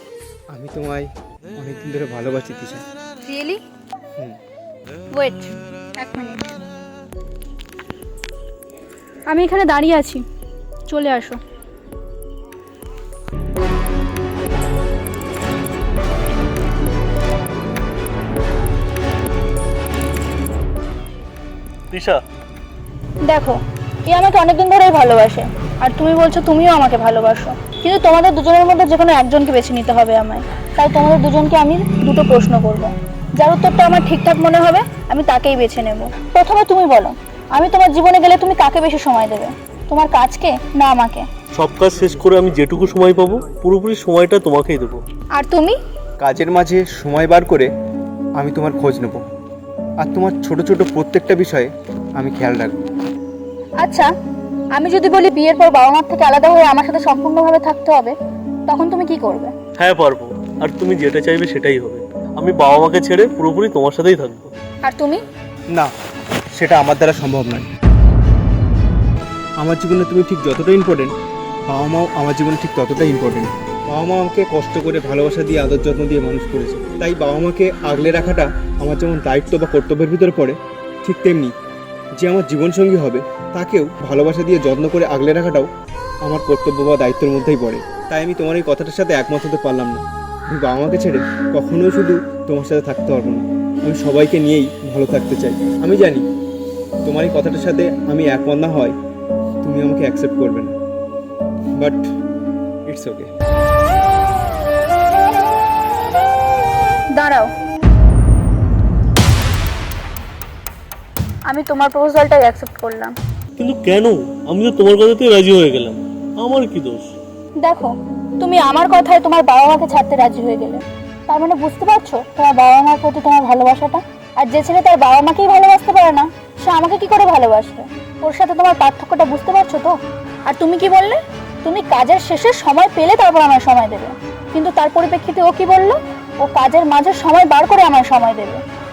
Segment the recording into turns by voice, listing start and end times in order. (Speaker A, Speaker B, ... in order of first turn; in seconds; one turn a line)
Speaker A: 0.5-1.1
Speaker A: 1.6-2.8
Speaker B: 3.2-3.6
Speaker B: 5.1-6.5
Speaker B: 9.3-10.2
Speaker B: 10.9-11.4
Speaker C: 21.9-22.2
Speaker B: 23.2-41.2
Speaker C: 41.5-45.0
Speaker B: 45.3-45.8
Speaker A: 46.2-47.7
Speaker A: 48.4-49.2
Speaker A: 50.0-52.8
Speaker B: 53.8-54.1
Speaker B: 54.7-58.1
Speaker B: 58.7-59.5
Speaker C: 59.8-64.5
Speaker B: 64.8-65.2
Speaker A: 66.5-67.7
Speaker A: 69.6-71.1
Speaker A: 71.7-81.5
Speaker A: 82.2-85.7
Speaker A: 86.2-96.2
Speaker A: 97.0-98.9
Speaker A: 99.6-100.7
Speaker A: 101.8-102.0
Speaker A: 102.9-103.3
Speaker B: 107.1-107.5
Speaker B: 111.5-113.1
Speaker C: 113.6-117.1
Speaker B: 117.6-138.6